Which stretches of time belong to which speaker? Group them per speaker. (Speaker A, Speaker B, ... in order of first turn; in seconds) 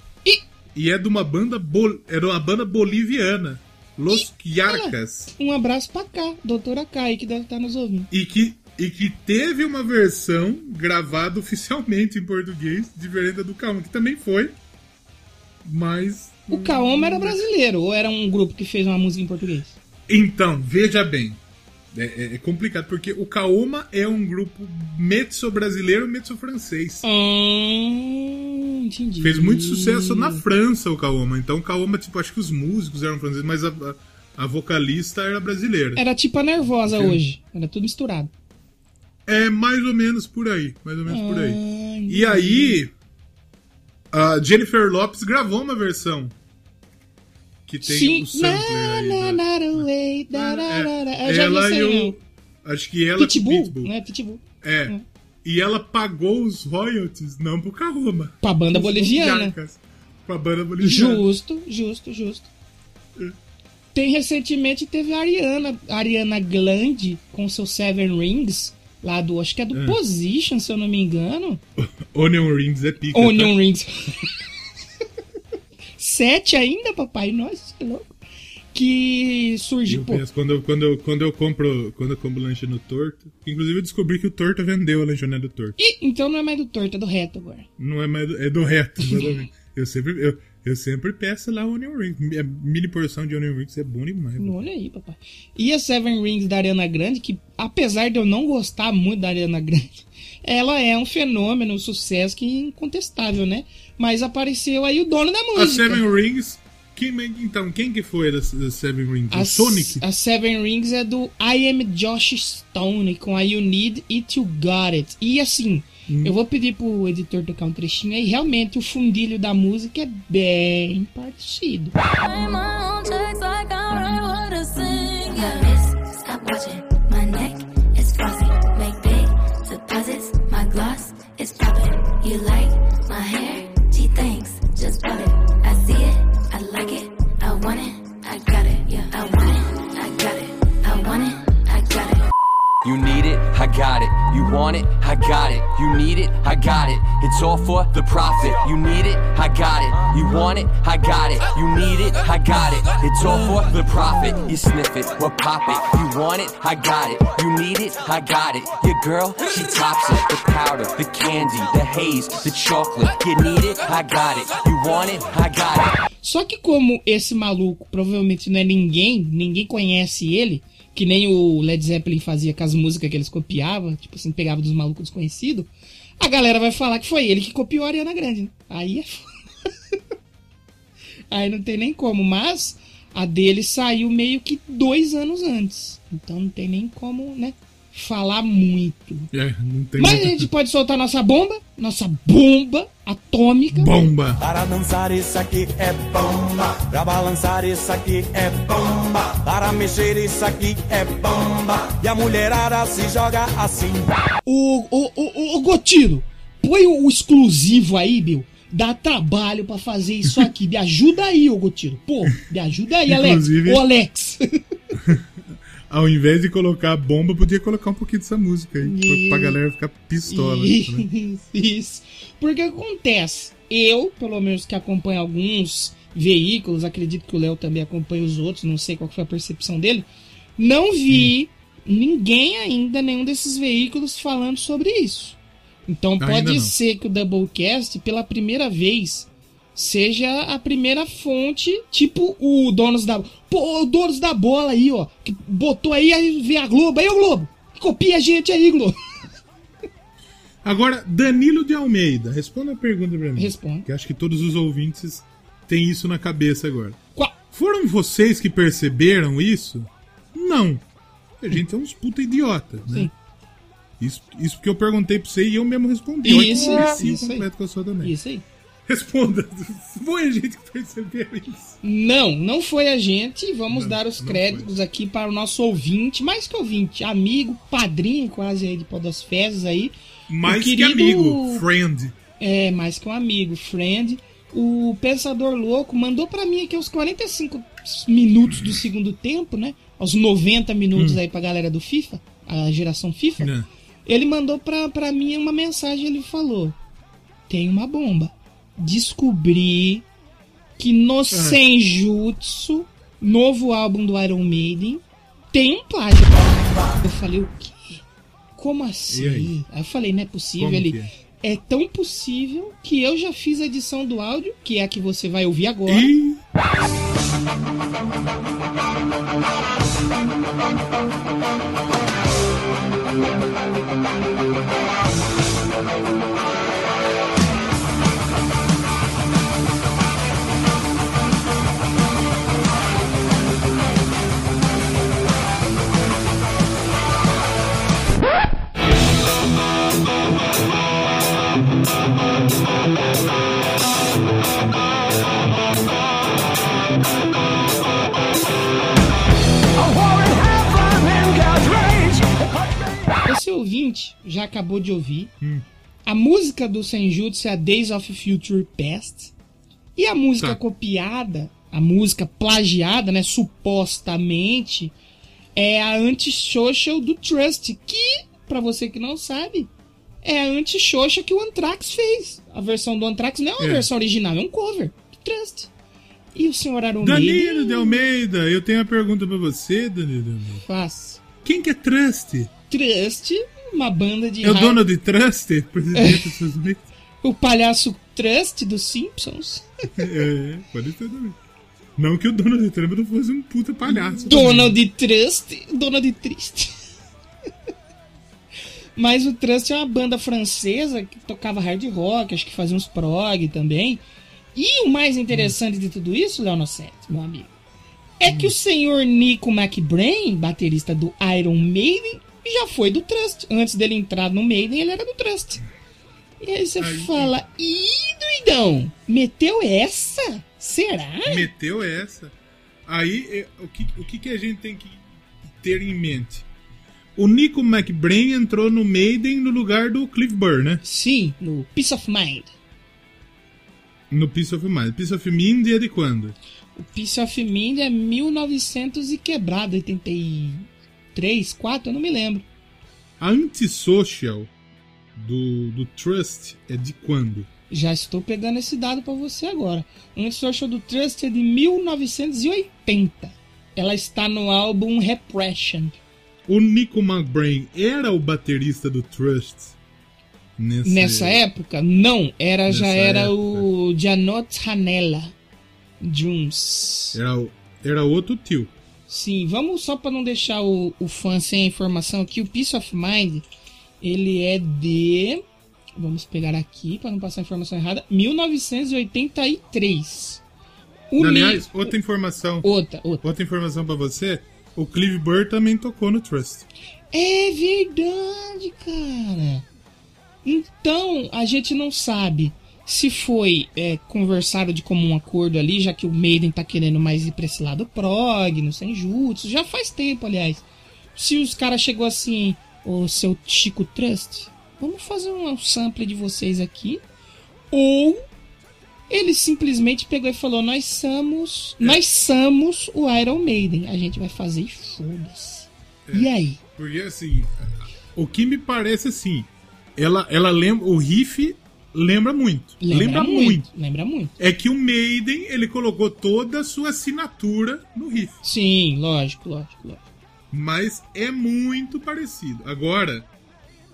Speaker A: 0.7-5.3, 8.1-14.6, 15.6-17.4, 20.1-21.4, 21.9-27.0, 29.2-36.0, 36.7-37.2, 39.2-42.9, 44.1-46.3, 47.7-53.9, 54.6-61.3, 69.7-70.0, 71.8-73.5, 79.9-85.8, 87.8-94.7, 105.5-110.0, 116.1-116.3, 189.3-190.5, 193.7-194.4, 213.1-213.8, 214.9-221.1, 236.2-236.7, 250.6-257.0, 257.5-260.8, 261.4-263.1, 264.0-268.1, 268.9-271.8, 273.7-274.7, 280.3-282.1, 290.9-291.2, 293.4-293.7, 301.3-301.6, 309.1-309.6, 310.6-311.1, 315.9-316.4, 373.6-373.9, 377.0-380.6, 381.4-382.5, 384.4-386.9, 389.9-391.4, 392.0-394.8, 405.3-405.5, 408.2-408.5, 416.8-417.3, 421.2-422.3, 422.9-425.0, 425.6-426.4, 427.1-430.8, 434.1-436.4, 443.2-444.5, 445.1-447.5, 456.4-459.8, 460.6-461.4, 462.7-463.6, 467.1-468.7, 481.2-482.7, 483.2-486.7, 516.0-523.7, 524.4-528.4, 530.5-533.2
Speaker B: 4.1-8.1, 16.5-19.8, 27.0-30.4, 36.0-38.3, 41.1-42.8, 47.8-52.1, 53.2-55.0, 58.4-59.5, 60.8-62.5, 63.9-71.6, 73.1-74.3, 76.0-78.1, 78.7-80.2, 85.8-87.7, 89.0-89.3, 94.4-106.0, 109.3-121.9, 166.2-179.9, 181.3-189.3, 190.0-193.9, 204.4-214.4, 218.8-219.6, 220.3-249.0, 253.4-253.8, 266.2-267.4, 268.0-268.4, 271.8-281.6, 282.4-293.5, 294.1-296.8, 297.5-300.1, 300.8-308.0, 308.6-316.1, 353.2-355.3, 356.1-359.3, 359.9-364.9, 365.6-369.7, 370.2-375.7, 376.3-378.0, 380.6-381.2, 382.7-384.8, 385.9-386.2, 387.2-389.9, 393.9-396.7, 399.0-404.0, 404.5-407.5, 408.2-415.6, 416.4-421.5, 430.8-432.5, 436.7-442.5, 447.7-456.0, 460.8-465.3, 466.0-467.2, 469.1-473.4, 474.0-475.4, 476.0-480.4, 481.1-481.9, 482.6-483.2, 487.1-489.6, 490.4-500.6, 501.1-507.0, 507.7-508.2, 509.1-516.6, 522.8-524.3, 528.4-530.0
Speaker C: 122.2-142.2
Speaker D: 142.8-165.9
Speaker E: 194.4-204.1, 349.8-352.8